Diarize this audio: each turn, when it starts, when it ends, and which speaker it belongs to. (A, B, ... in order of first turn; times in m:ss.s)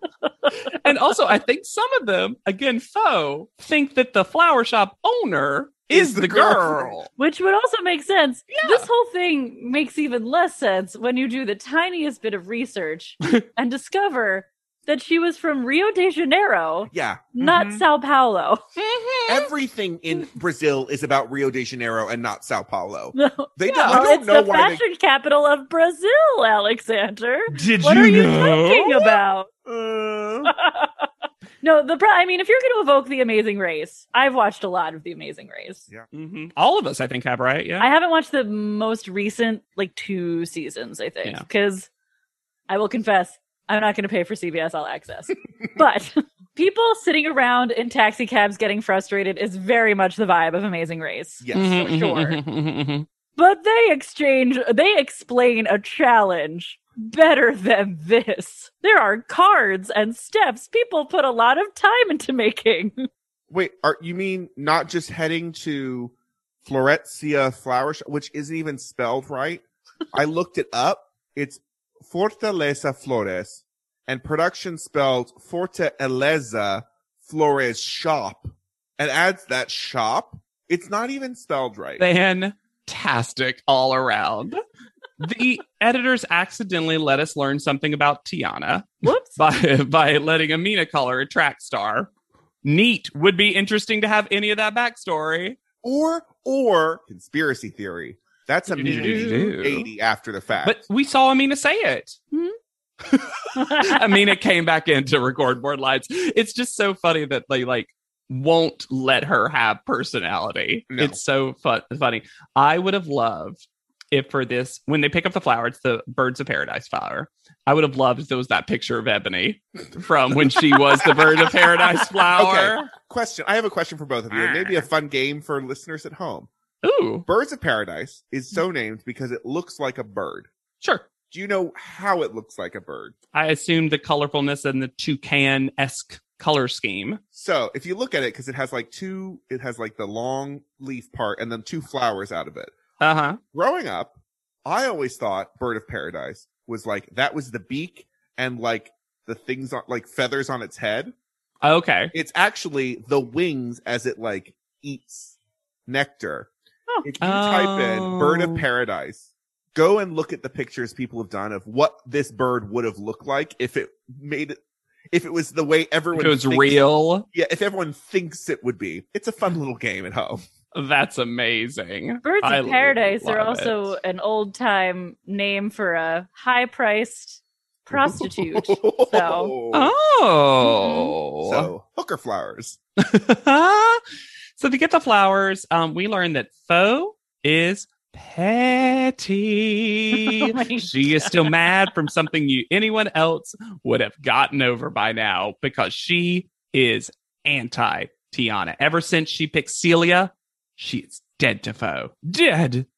0:00.5-0:07.1 A
0:05.9-0:06.9 B
0:07.2-0:18.6 C
0:08.5-0:08.9 A
0:16.9-0:17.8 B
0:18.8-0:19.5 A
0:19.3-0:24.8 B
0:23.1-0:29.5 C
0:23.6-0:24.0 A
0:27.5-0:29.2 A
0:29.6-0:30.5 B
0:30.4-0:31.0 C
0:31.6-0:35.8 C
0:36.1-0:37.9 A
0:37.8-0:41.9 C
0:42.7-0:52.4 C
0:51.4-0:52.0 B
0:51.5-0:53.0 A
0:53.4-1:03.1 C
1:03.5-1:06.1 B
1:06.6-1:22.0 B
1:22.0-1:24.6 A
1:25.2-1:32.1 A
1:29.0-1:29.4 C
1:32.6-1:35.6 A
1:35.8-1:40.8 B
1:38.7-1:39.9 A
1:38.8-1:39.4 C
1:40.6-1:42.2 A
1:43.0-2:02.9 A
1:43.6-1:44.2 C
1:50.9-1:51.2 B
2:02.3-2:06.5 B
2:04.3-2:04.8 A
2:06.8-2:07.2 A
2:07.2-2:10.5 B
2:11.3-2:13.1 B
2:13.3-2:17.2 A
2:17.3-2:22.8 B
2:23.0-2:23.4 A
2:23.5-2:31.1 B
2:31.6-2:32.1 A
2:32.1-2:35.3 B
2:35.9-2:36.5 B
2:37.0-2:44.6 B
2:37.2-2:38.6 A
2:45.1-2:50.4 B
2:46.1-2:47.2 A
2:50.7-2:53.9 A
2:52.2-2:59.5 C
2:57.9-2:59.9 B
2:59.7-3:01.7 A
3:00.6-3:01.1 C
3:01.4-3:02.8 B
3:03.0-3:04.0 A
3:04.6-3:22.8 A
3:10.1-3:11.5 C